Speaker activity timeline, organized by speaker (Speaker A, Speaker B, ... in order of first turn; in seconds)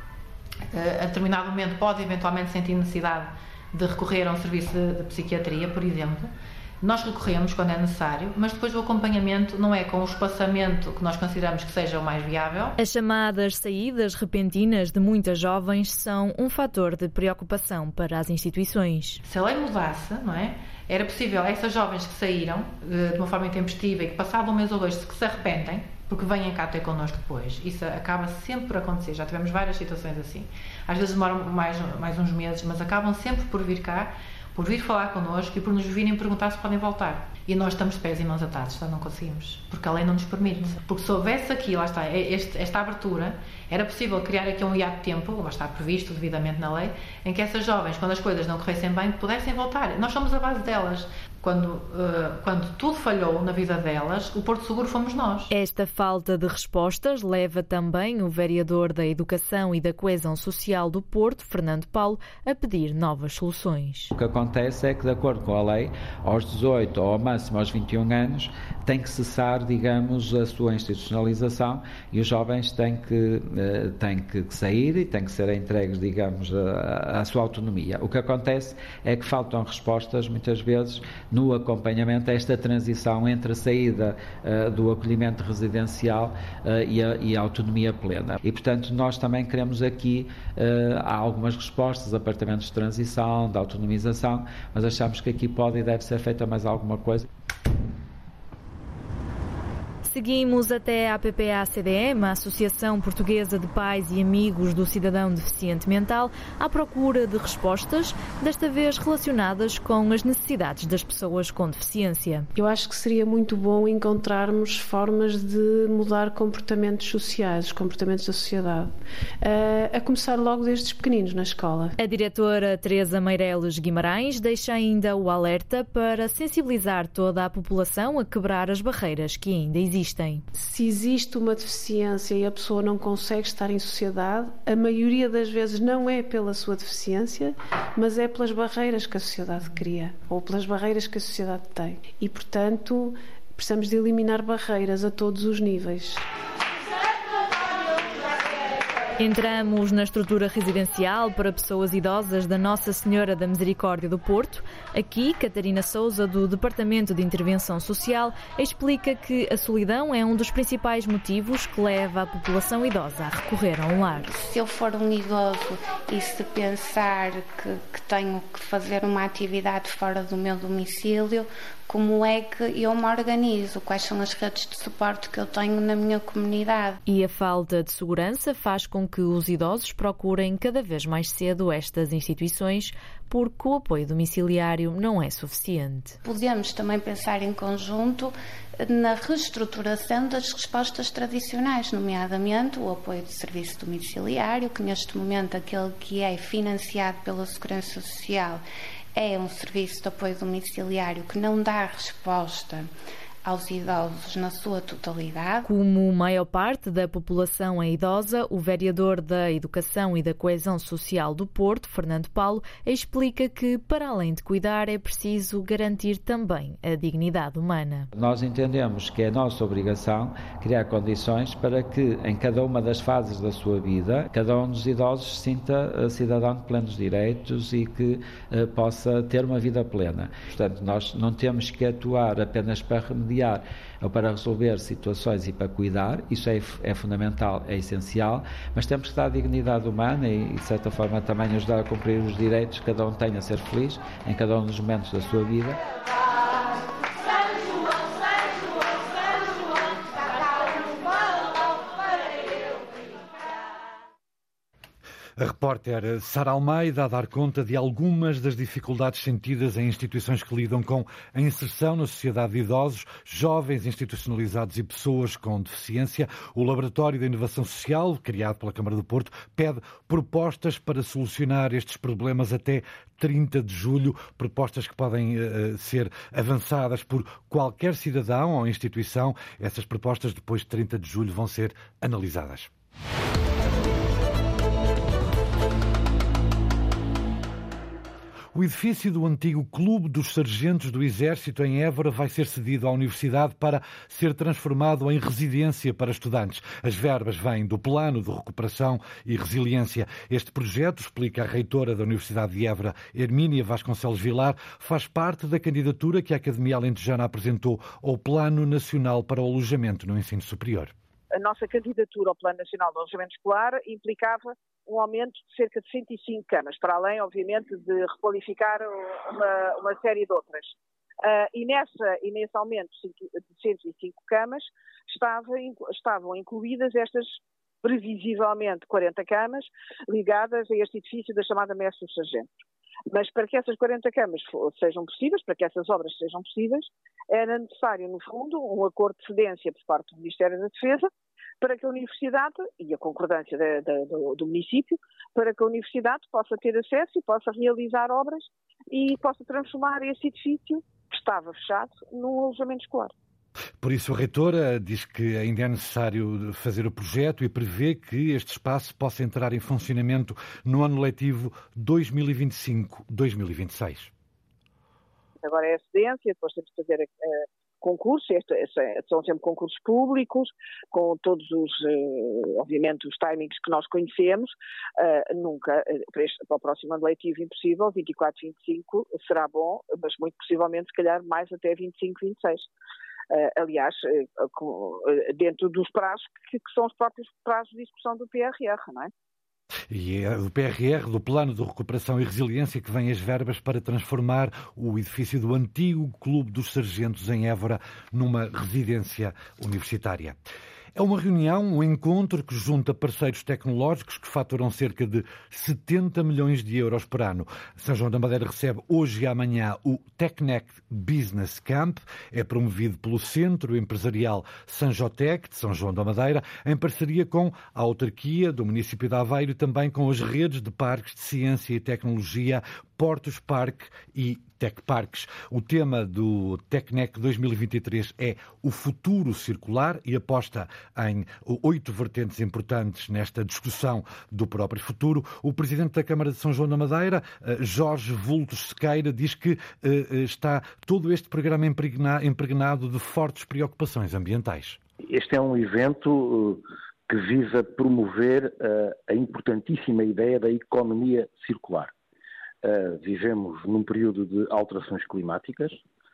Speaker A: 0.7-12.8, 19.2-55.5
Speaker B: 12.8-19.2, 55.5-64.1, 100.0-112.5, 122.0-130.4, 149.2-164.3, 177.1-186.2, 205.6-218.1
Speaker C: 64.1-97.3, 218.2-245.8
Speaker D: 112.5-121.9, 130.6-146.2
Speaker E: 164.3-177.0, 186.2-198.6, 199.2-202.9, 203.4-205.7
Speaker F: 255.4-282.7, 288.5-310.9, 353.8-364.1, 389.9-400.4, 401.0-444.8
Speaker G: 311.3-332.5, 333.1-341.1, 341.6-353.1, 365.4-382.7, 383.3-389.1
Speaker H: 445.0-451.9, 452.6-455.8